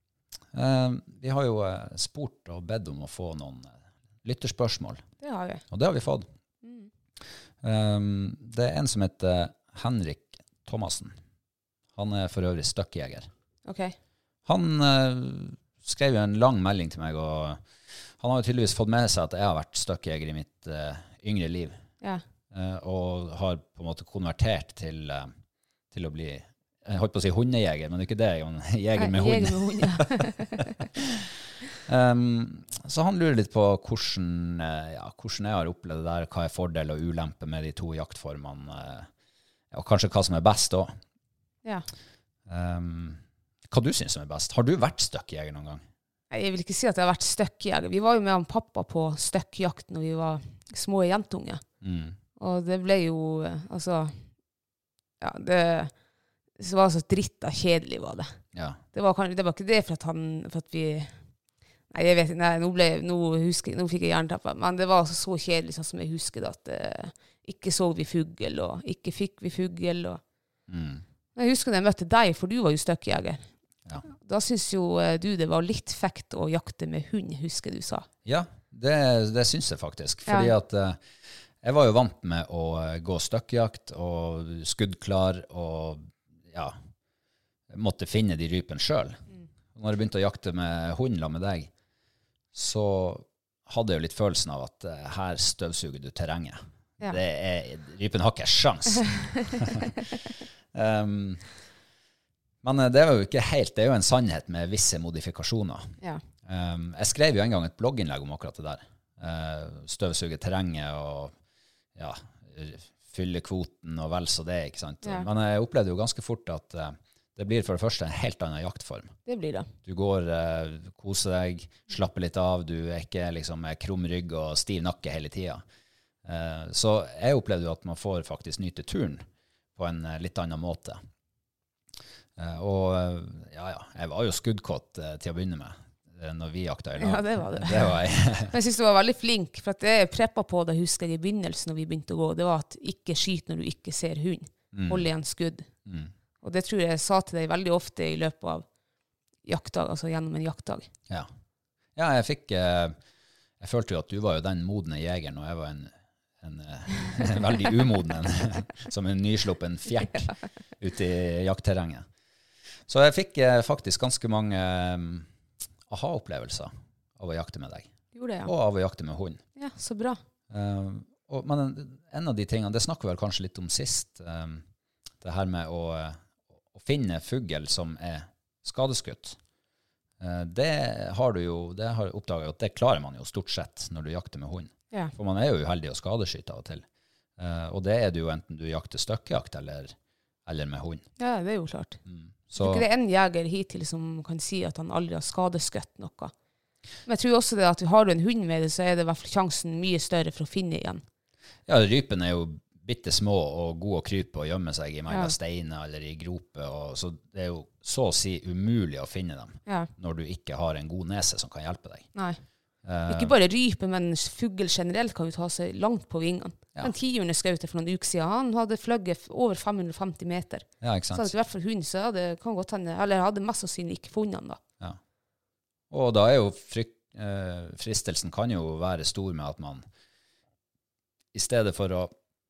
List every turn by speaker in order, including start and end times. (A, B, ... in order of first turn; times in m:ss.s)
0:00.5-0:05.0 A
0:05.2-0:05.6 B
0:05.7-0:06.3 A
0:06.6-0:06.9 B
0:07.6-0:11.2 A
0:12.0-0:13.3 A
0:13.6-0:14.0 B
0:14.5-0:17.6 A
0:18.2-0:21.8 A
0:22.5-0:25.3 A
0:25.9-0:30.3 A
0:29.0-0:30.7 B
0:31.0-0:31.3 A
0:31.9-0:39.1 A
0:39.7-0:41.0 A
0:42.5-0:45.8 A
0:46.3-0:51.6 B
0:51.8-0:52.2 A
0:52.4-0:54.2 B
0:55.2-0:55.9 B
0:56.6-0:58.3 B
0:58.5-0:58.8 A
0:58.9-1:01.2 B
1:01.9-1:10.2 B
1:10.7-1:11.0 A
1:11.4-1:13.5 B
1:14.0-1:18.1 B
1:18.2-1:21.0 A
1:20.3-1:20.5 B
1:21.6-1:26.8 A
1:27.7-1:29.2 A
1:29.8-1:31.7 A
1:32.5-1:40.0 A
1:40.7-1:41.4 A
1:42.6-1:45.9 A
1:46.4-1:51.4 A
1:52.0-1:59.1 A
1:59.3-1:59.7 B
1:59.8-2:05.6 A
2:06.2-2:09.2 A
2:09.8-2:11.0 A
2:12.4-2:18.5 A
2:17.0-2:25.7 B
2:24.7-2:25.1 A
2:25.9-2:26.1 A
2:26.4-2:28.7 B
2:29.4-2:30.9 B
2:32.0-2:33.0 A
2:33.6-2:42.1 A
2:42.9-2:45.3 A
2:45.9-2:47.9 A
2:48.1-2:48.5 B
2:48.4-2:49.4 A
2:49.6-2:50.2 B
2:50.5-2:54.6 A
2:55.2-2:56.2 A
2:56.7-2:59.4 A
3:00.2-3:06.9 A
3:07.4-3:10.0 A
3:10.5-3:11.0 A
3:11.2-3:12.0 B
3:12.1-3:12.9 A
3:12.6-3:16.3 B
3:17.1-3:21.0 B
3:21.7-3:32.1 A
3:25.1-3:25.4 B
3:32.2-3:32.4 B
3:32.8-3:33.3 A
3:33.1-3:44.6 B
3:40.8-3:41.3 A
3:45.9-3:49.8 A
3:51.3-3:52.1 A